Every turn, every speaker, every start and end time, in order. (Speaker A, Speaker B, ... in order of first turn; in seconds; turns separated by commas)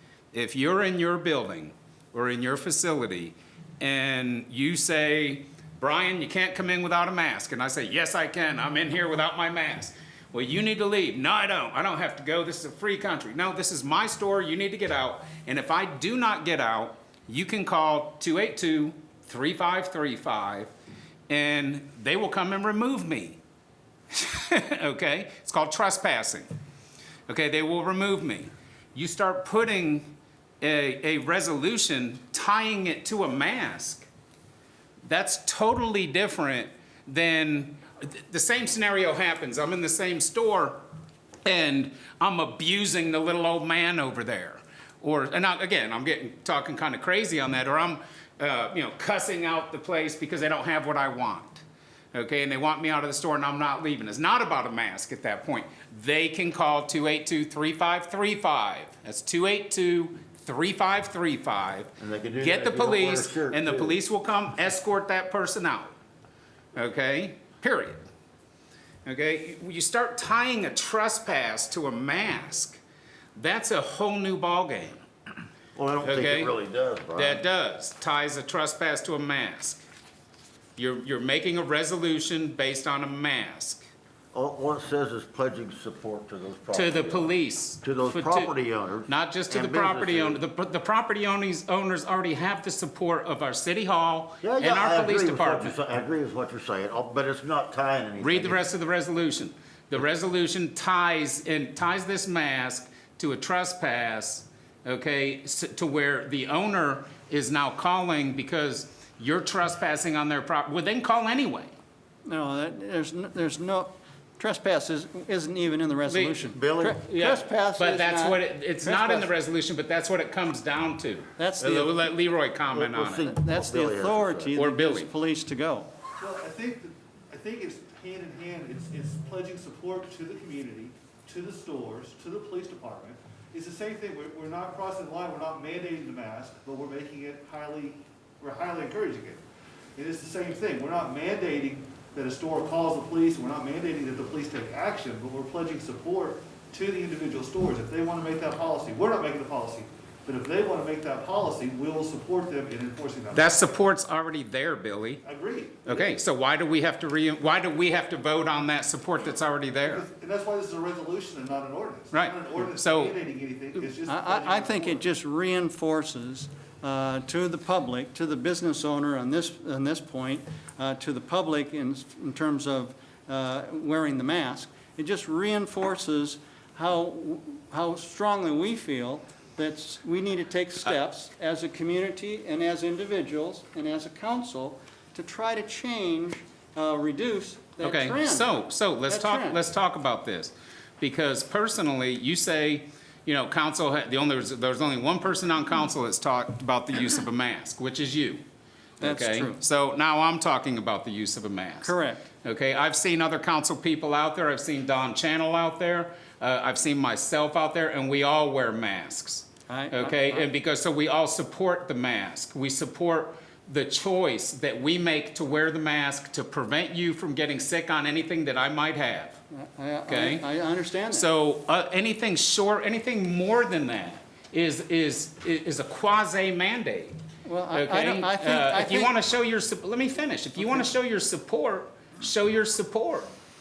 Speaker A: 0.3-20.7, Speaker A: 21.3-23.4, Speaker A: 24.1-26.5, Speaker A: 27.3-30.1, Speaker A: 30.6-34.1, Speaker A: 35.0-40.8, Speaker A: 41.4-65.9, Speaker B: 62.0-64.0, Speaker A: 66.7-68.0, Speaker A: 69.0-72.8, Speaker A: 73.3-75.0, Speaker B: 75.8-77.4, Speaker A: 76.0-76.5, Speaker A: 77.1-79.8, Speaker A: 80.8-83.8, Speaker B: 84.3-90.4, Speaker A: 86.7-88.5, Speaker A: 89.1-95.8, Speaker B: 94.4-98.6, Speaker A: 98.2-111.8, Speaker C: 112.2-119.3, Speaker A: 116.1-116.3, Speaker B: 116.5-117.0, Speaker A: 117.0-123.3, Speaker C: 121.4-122.1, Speaker B: 122.7-124.6, Speaker C: 123.1-125.9, Speaker A: 124.5-125.1, Speaker D: 126.2-139.4, Speaker D: 139.9-153.6, Speaker A: 153.3-155.2, Speaker D: 155.2-156.1, Speaker A: 155.8-160.0, Speaker D: 159.8-165.1, Speaker A: 162.1-163.1, Speaker C: 164.1-188.5, Speaker A: 187.8-198.4, Speaker C: 189.1-189.6, Speaker C: 199.0-199.6, Speaker A: 199.0-219.4, Speaker C: 201.8-202.2, Speaker C: 209.7-210.5, Speaker C: 219.5-221.3, Speaker A: 220.1-220.4, Speaker A: 221.1-227.2, Speaker C: 227.4-229.1, Speaker A: 227.7-233.3, Speaker C: 230.6-230.9